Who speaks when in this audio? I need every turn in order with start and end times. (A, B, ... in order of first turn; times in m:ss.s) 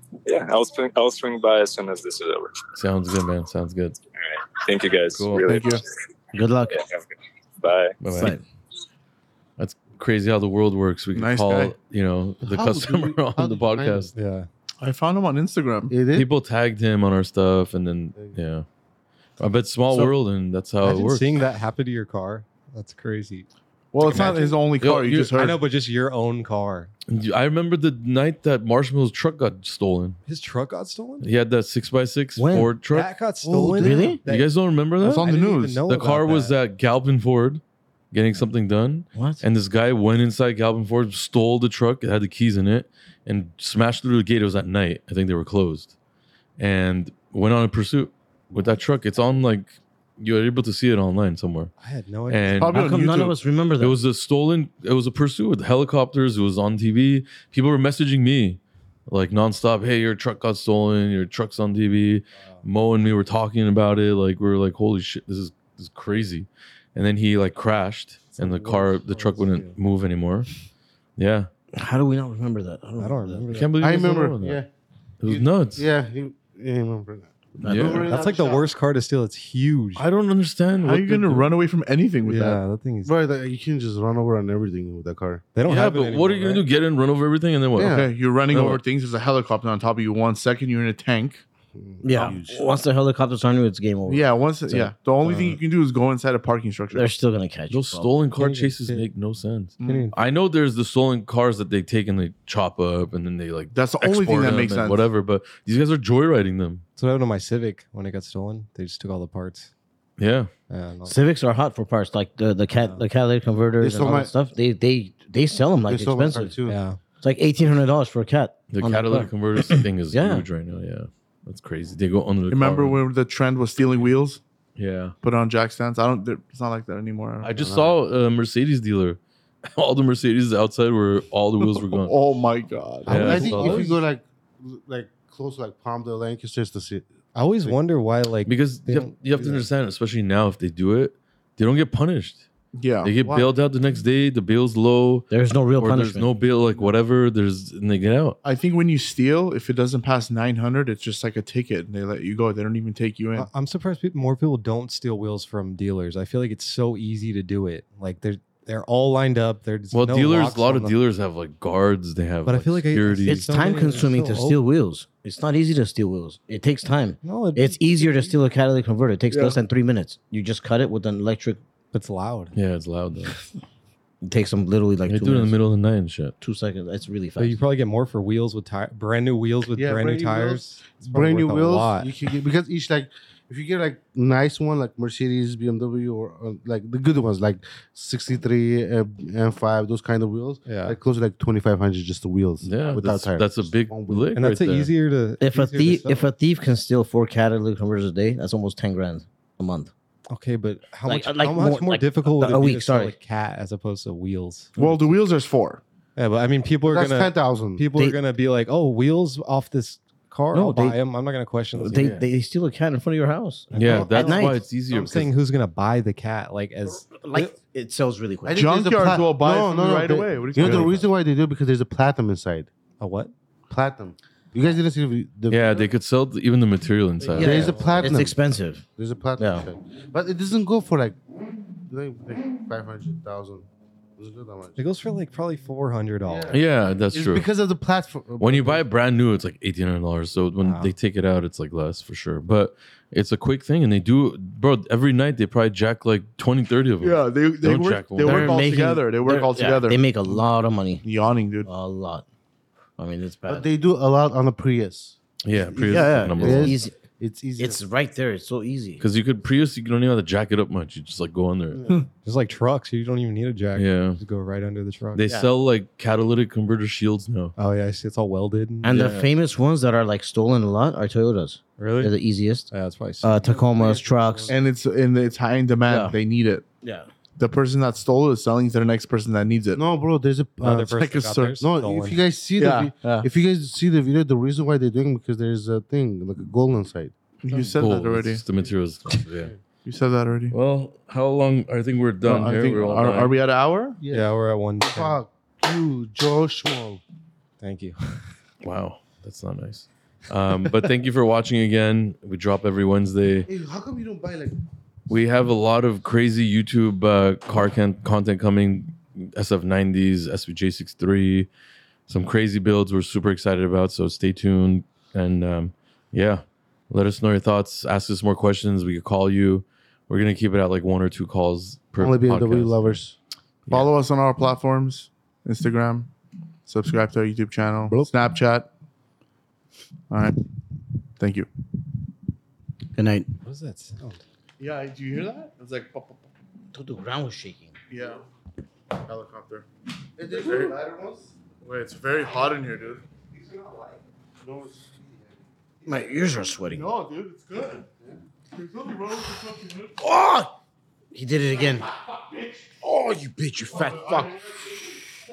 0:00.2-0:02.6 A
0:02.8-0:04.0 B
0:04.2-0:05.8 A
0:05.1-0:05.5 B
0:05.5-0:05.8 C
0:06.3-0:06.8 D
0:06.7-0:07.1 A
0:07.6-0:08.0 A
0:08.0-0:08.4 B
0:09.6-0:14.1 B
0:11.1-0:11.7 C
0:12.4-0:14.0 E
0:14.1-0:14.5 F
0:14.8-0:15.9 C
0:15.9-0:16.3 E
0:16.1-0:18.6 B
0:19.4-0:21.4 B
0:20.8-0:23.5 F
0:23.9-0:25.6 C
0:24.0-0:24.6 F
0:24.1-0:25.3 B
0:25.3-0:26.9 F
0:27.1-0:30.2 B
0:30.2-0:31.3 F
0:31.2-0:33.1 B
0:32.4-0:32.7 D
0:32.9-0:34.5 F
0:33.5-0:34.2 D
0:34.2-0:45.9 B
0:35.0-0:35.8 C
0:35.0-0:36.6 F
0:39.1-0:39.4 D
0:46.6-0:51.7 B
0:51.8-0:52.8 F
0:52.3-0:52.8 B
0:52.6-0:53.3 C
0:52.7-0:54.0 D
0:53.8-1:10.5 B
1:08.4-1:09.8 F
1:11.2-1:11.5 B
1:11.7-1:13.6 D
1:13.0-1:13.7 F
1:13.5-1:14.6 B
1:13.8-1:14.7 E
1:15.2-1:15.9 B
1:15.2-1:18.7 E
1:17.6-1:18.1 D
1:17.6-1:18.0 B
1:18.1-1:20.0 F
1:20.0-1:21.5 B
1:20.8-1:22.6 C
1:22.2-1:23.1 F
1:23.0-1:25.4 E
1:25.5-1:26.7 F
1:25.6-1:28.8 B
1:27.8-1:28.1 E
1:27.8-1:31.4 C
1:31.8-1:32.7 E
1:32.0-1:34.9 D
1:34.1-1:37.1 C
1:35.2-1:35.6 F
1:36.9-1:38.1 D
1:37.7-1:46.8 B
1:38.4-1:39.1 F
1:39.8-1:40.1 C
1:39.8-1:40.1 F
1:43.7-1:45.1 C
1:47.0-1:49.7 F
1:50.2-1:50.5 B
1:50.7-1:51.2 F
1:51.0-1:56.5 D
1:53.8-1:54.3 E
1:55.9-1:56.8 E
1:56.6-1:57.0 F
1:57.2-2:00.4 D
1:58.7-2:03.0 B
2:02.5-2:04.4 C
2:04.8-2:05.1 B
2:05.2-2:07.5 C
2:07.4-2:12.1 B
2:07.6-2:07.9 F
2:11.9-2:13.8 C
2:13.0-2:13.9 B
2:13.0-2:17.8 E
2:13.3-2:13.8 F
2:17.3-2:19.6 F
2:18.4-2:22.4 B
2:22.7-2:23.5 C
2:23.0-2:28.4 B
2:25.3-2:26.3 D
2:28.4-2:33.5 C
2:33.4-2:41.0 F
2:39.9-2:43.5 B
2:42.4-2:44.6 F
2:43.3-2:51.6 D
2:47.2-2:48.4 F
2:49.3-2:49.6 C
2:51.9-2:52.5 F
2:52.5-2:53.3 B
2:54.2-2:55.6 D
2:55.1-2:56.3 B
2:56.4-2:57.6 D
2:57.4-3:02.1 F
2:59.8-3:00.1 C
3:00.1-3:14.4 E
3:10.6-3:11.0 F
3:12.6-3:14.9 B
3:14.3-3:16.3 F
3:15.4-3:19.9 D
3:20.3-3:24.7 F
3:21.0-3:23.1 D
3:24.8-3:25.8 C
3:26.2-3:32.2 F
3:26.8-3:27.8 E
3:30.5-3:31.0 D
3:31.8-3:34.6 D
3:31.9-3:32.2 B
3:33.7-3:37.5 F
3:33.7-3:35.3 B
3:37.0-3:38.7 D
3:38.5-3:42.7 E
3:38.5-3:41.0 C
3:43.0-3:43.3 F
3:43.7-3:45.8 E
3:45.5-3:47.7 B
3:47.3-3:48.2 F
3:47.3-3:48.4 E
3:47.3-3:48.8 D
3:49.0-3:51.2 E
3:49.4-3:49.7 D
3:51.8-3:54.8 E
3:54.8-3:56.6 F
3:56.2-3:58.8 E
3:56.5-3:57.5 B
3:58.4-4:08.6 B
4:00.6-4:00.9 F
4:07.0-4:10.4 C
4:08.2-4:11.0 D
4:11.0-4:11.7 C
4:11.7-4:12.2 D
4:13.0-4:13.6 D
4:13.5-4:17.8 E
4:15.4-4:16.8 B
4:15.9-4:16.9 D
4:17.6-4:19.0 D
4:19.0-4:21.8 B
4:21.7-4:22.0 E
4:22.2-4:25.2 F
4:23.7-4:24.2 B
4:25.1-4:27.5 B
4:25.2-4:25.5 D
4:27.6-4:29.1 F
4:28.8-4:34.5 D
4:28.9-4:29.2 B
4:31.8-4:32.1 F
4:32.7-4:34.6 F
4:34.5-4:36.6 C
4:35.8-4:36.2 D
4:36.8-4:37.1 D
4:37.4-4:39.8 C
4:39.7-4:41.0 E
4:40.6-4:42.2 F
4:41.0-4:41.6 C
4:41.6-4:47.1 E
4:42.6-4:43.3 C
4:47.4-4:48.4 C
4:47.7-4:49.5 B
4:49.8-4:50.5 C
4:50.5-4:53.3 B
4:52.2-4:54.0 C
4:54.0-4:57.0 E
4:54.1-4:55.2 F
4:57.6-4:58.2 F
4:58.6-5:03.5 B
5:03.5-5:04.6 E
5:05.1-5:11.5 B
5:12.1-5:23.0 B
5:22.0-5:23.2 E
5:23.7-5:26.1 C
5:26.6-5:28.7 C
5:30.1-5:30.4 C
5:31.2-5:31.5 C
5:32.9-5:33.3 D
5:33.4-5:34.2 F
5:34.6-5:36.2 C
5:36.7-5:37.8 D
5:37.9-5:38.2 C
5:39.0-5:39.6 C
5:40.2-5:41.3 E
5:40.3-5:40.7 C
5:41.6-5:43.0 C
5:44.4-5:46.0 E
5:45.8-5:46.8 D
5:46.7-5:47.8 C
5:48.5-5:50.0 C
5:50.0-5:50.5 D
5:51.1-5:51.9 D
5:52.8-5:54.4 D